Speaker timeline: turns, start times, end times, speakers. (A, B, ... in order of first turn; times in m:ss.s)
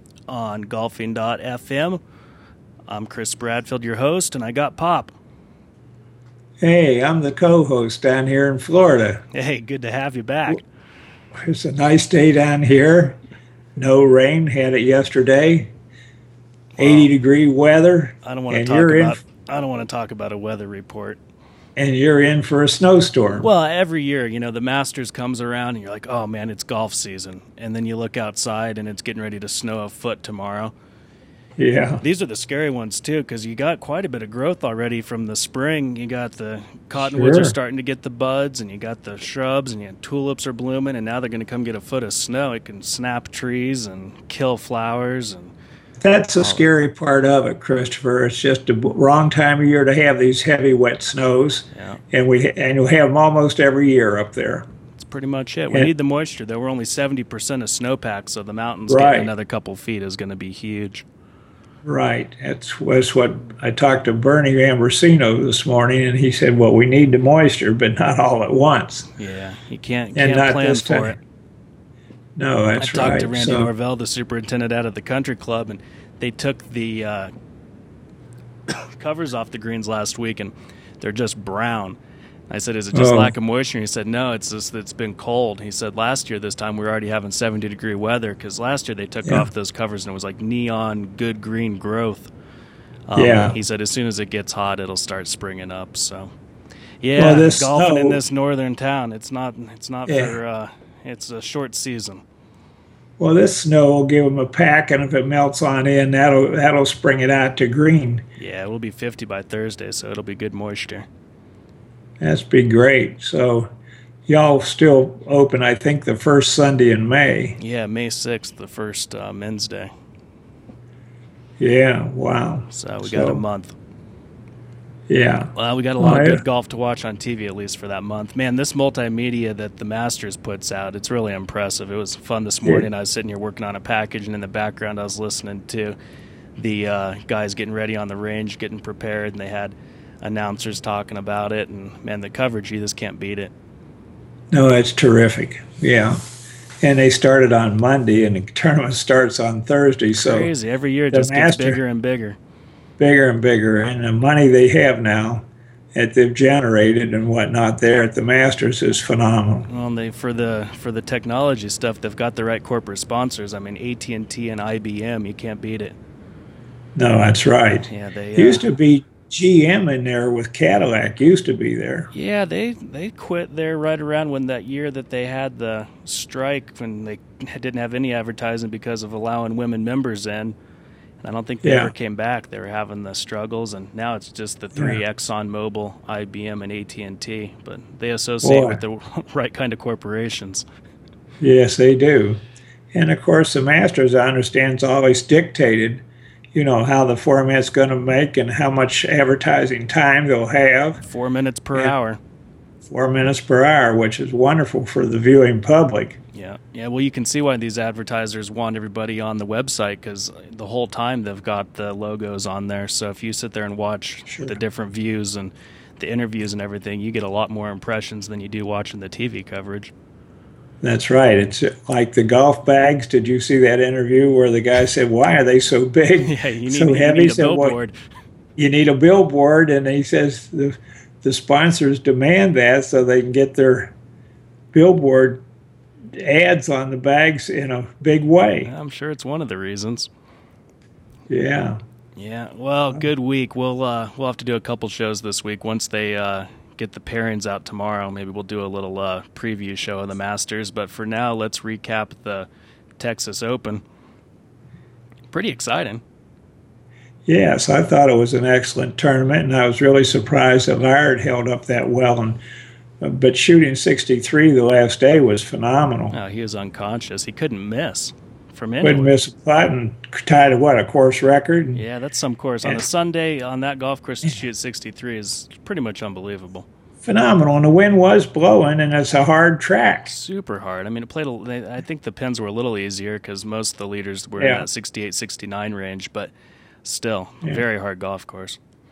0:00.3-0:02.0 A
0:02.9-0:05.1 A
0:06.6-0:09.2 B
0:09.3-0:10.6 A
0:11.4-0:13.2 B
0:13.8-0:15.7 B
0:16.8-0:17.1 A
0:16.8-0:19.2 B
0:18.2-0:21.2 A
0:21.8-0:23.5 B
0:23.3-0:30.7 A
0:31.6-0:32.0 B
0:32.0-0:45.5 A
0:37.0-0:37.6 B
0:46.0-0:54.6 B
0:46.4-0:46.6 A
0:51.7-0:52.0 A
0:54.9-1:01.0 A
0:58.9-0:59.3 B
1:01.8-1:09.1 B
1:09.2-1:11.2 A
1:10.1-1:11.2 B
1:12.4-1:13.7 B
1:12.8-1:17.3 A
1:18.7-1:22.0 A
1:22.5-1:32.3 A
1:22.9-1:23.3 B
1:33.1-1:36.3 A
1:33.2-1:33.6 B
1:37.0-1:42.2 A
1:37.2-1:38.2 B
1:40.1-1:40.4 B
1:43.2-1:48.2 B
1:48.4-1:51.0 A
1:52.2-1:53.7 B
1:54.3-1:57.6 B
1:57.6-1:59.9 A
2:01.6-2:03.4 B
2:02.7-2:03.7 A
2:05.1-2:06.4 B
2:05.5-2:16.0 A
2:16.6-2:23.5 A
2:24.5-2:26.2 B
2:26.8-2:30.5 B
2:30.2-2:32.4 A
2:31.1-2:31.8 B
2:33.0-2:39.7 B
2:39.7-2:46.0 A
2:47.0-2:52.1 B
2:47.9-2:48.7 A
2:52.1-3:00.6 A
3:01.2-3:10.6 A
3:01.6-3:01.9 B
3:04.7-3:05.0 B
3:08.4-3:08.8 B
3:11.4-3:12.4 B
3:12.9-3:21.0 B
3:21.0-3:22.2 A
3:22.8-3:26.2 B
3:26.3-3:39.9 A
3:34.3-3:34.6 B
3:40.8-3:47.8 B
3:46.2-3:47.9 A
3:48.6-3:53.9 B
3:54.7-3:55.4 B
3:56.1-3:58.7 B
3:58.6-4:00.1 A
4:01.3-4:01.8 B
4:02.2-4:13.8 A
4:15.3-4:16.0 A
4:17.2-4:22.4 B
4:23.0-4:26.1 B
4:26.1-4:29.2 A
4:28.8-4:31.8 B
4:31.7-4:36.7 A
4:37.0-4:40.1 B
4:40.0-4:46.3 A
4:44.4-4:44.6 B
4:46.8-4:48.6 A